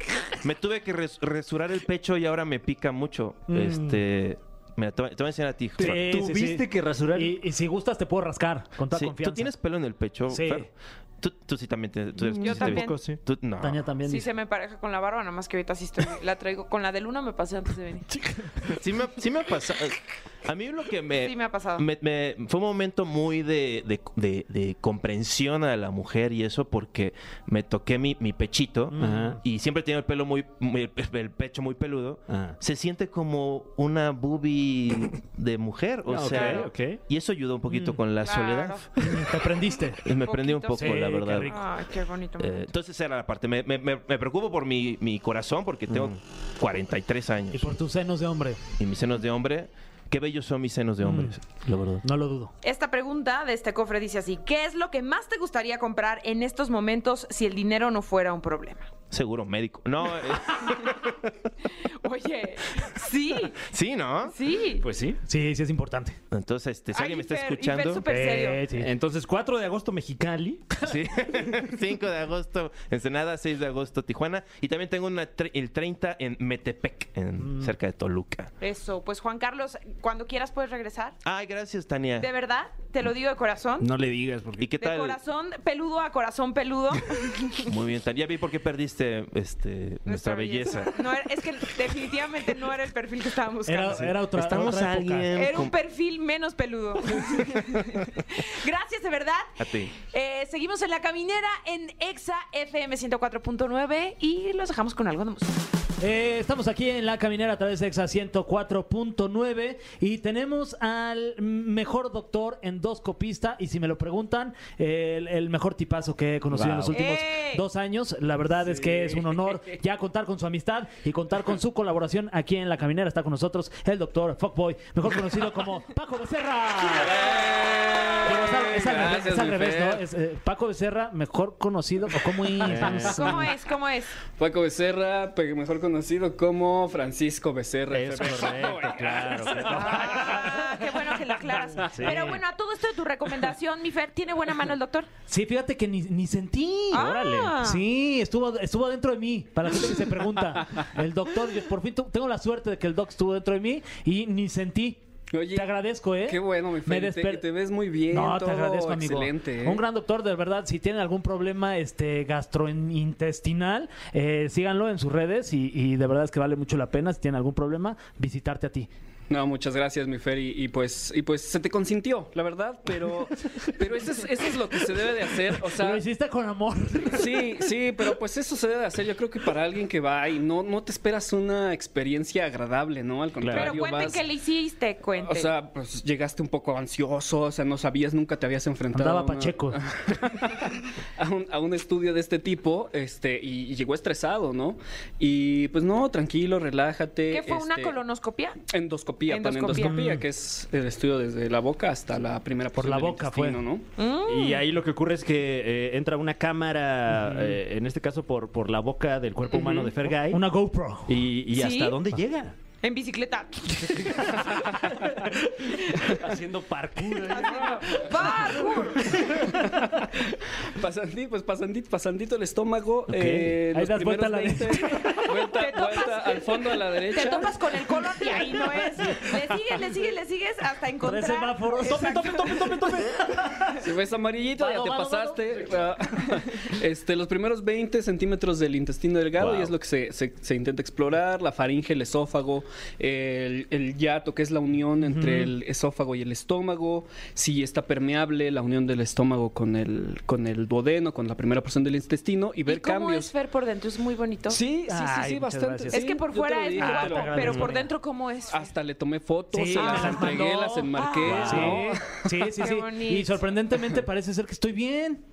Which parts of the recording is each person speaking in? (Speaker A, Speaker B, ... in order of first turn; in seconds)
Speaker A: 0.4-6.0, 8.9-13.8, 18.7-39.1, 40.0-41.6, 42.4-47.8, 48.8-51.4, 59.1-61.3, 63.6-64.3, 66.3-68.0, 70.8-78.5, 81.2-82.3, 84.6-85.2, 87.6-91.0, 94.0-95.7, 97.3-98.0, 99.6-99.9
Speaker B: 3.5-4.0, 5.8-9.5, 10.3-10.7, 13.6-14.3, 28.9-29.4, 39.0-40.0, 40.8-41.7, 47.5-48.6, 51.0-51.4, 52.0-52.5, 65.3-66.2, 68.1-68.9, 77.4-77.7, 93.7-95.3, 106.0-127.2, 128.2-133.5, 139.7-140.6, 142.0-142.4, 145.3-147.0, 147.6-155.0, 155.5-157.4, 158.1-168.9, 175.7-177.6, 188.9-189.8, 199.8-200.2, 202.8-203.6, 210.1-211.2, 223.7-225.3, 231.0-233.8, 234.6-235.6, 245.0-245.5, 254.9-256.0, 256.8-257.9, 259.5-265.2
Speaker C: 5.8-7.4, 12.2-13.2, 18.1-18.7, 29.0-29.4, 32.3-32.6, 36.1-37.0, 45.9-46.2, 51.6-52.0, 64.8-65.2, 68.7-70.8, 83.8-84.7, 116.5-117.0, 132.6-133.4, 137.9-140.3, 141.8-142.3, 146.9-147.6, 183.4-183.8, 204.2-210.4, 211.1-212.6, 215.9-218.0, 223.1-223.6, 231.8-233.3, 239.4-239.8, 261.2-261.8
Speaker D: 12.3-13.0, 14.1-18.1, 21.1-21.9, 36.2-36.7, 38.2-38.9, 40.1-42.7, 52.6-58.9, 60.6-60.9, 61.7-63.7, 64.3-64.8, 66.9-68.6, 78.6-81.2, 82.2-83.9, 84.8-87.7, 90.1-94.0, 95.3-105.6, 116.9-117.6, 132.8-134.2, 139.7-145.1, 146.9-147.8, 183.5-185.5, 197.3-198.6, 199.3-200.0, 204.0-204.7, 209.5-209.9, 211.5-212.0, 212.8-214.9, 215.6-216.3, 217.2-219.3, 225.1-233.0, 252.7-254.6, 255.9-258.7, 259.7-260.4, 260.9-261.5, 262.6-263.4
Speaker E: 118.8-119.3, 126.8-130.0, 134.3-140.2, 155.3-155.7, 156.2-159.8, 169.3-176.0, 177.1-184.2, 185.2-198.0, 198.7-203.9, 217.5-218.0, 219.5-220.0, 220.7-227.6, 233.8-253.3, 254.5-257.7, 258.5-262.3